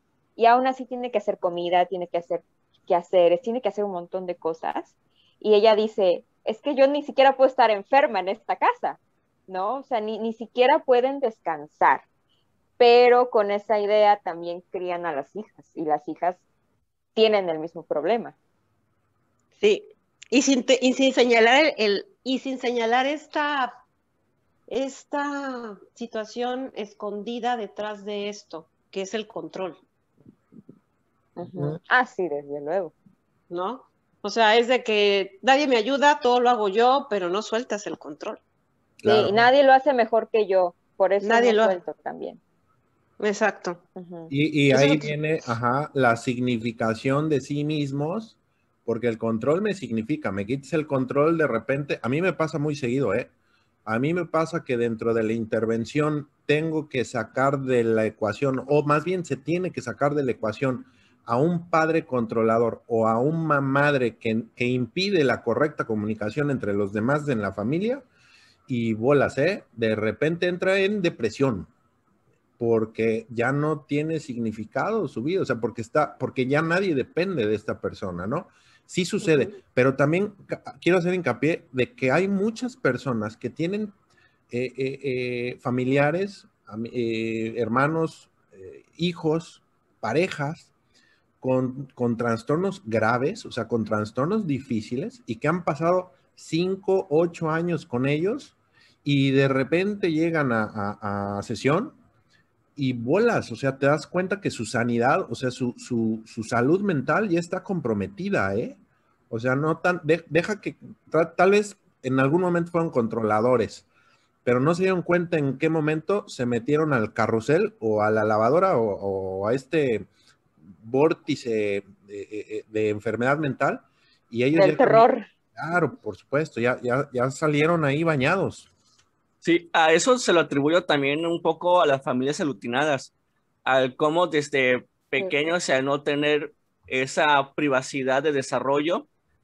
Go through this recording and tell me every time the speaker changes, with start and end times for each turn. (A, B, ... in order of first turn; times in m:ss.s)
0:00.4-0:12.0 A
0:12.8-0:16.4 A
0:17.1-0:18.4 A
0:19.6-0:23.8 B
0:24.7-0:29.8 B
0:31.4-0:32.9 A
0:33.5-0:38.4 B
0:39.0-0:39.5 C
0:39.0-0:42.4 A
0:41.2-0:41.8 B
0:43.2-0:43.8 B
0:44.0-0:44.3 A
0:44.3-0:53.3 C
0:44.7-0:45.1 B
0:53.9-1:08.0 C
1:08.7-1:11.7 C
1:12.6-1:23.9 C
1:24.5-1:30.7 C
1:31.4-1:42.0 C
1:42.8-1:48.8 C
1:49.3-1:53.9 C
1:54.4-2:00.1 C
2:00.8-2:08.7 C
2:04.5-2:05.2 A
2:09.4-2:13.1 D
2:13.6-2:19.1 D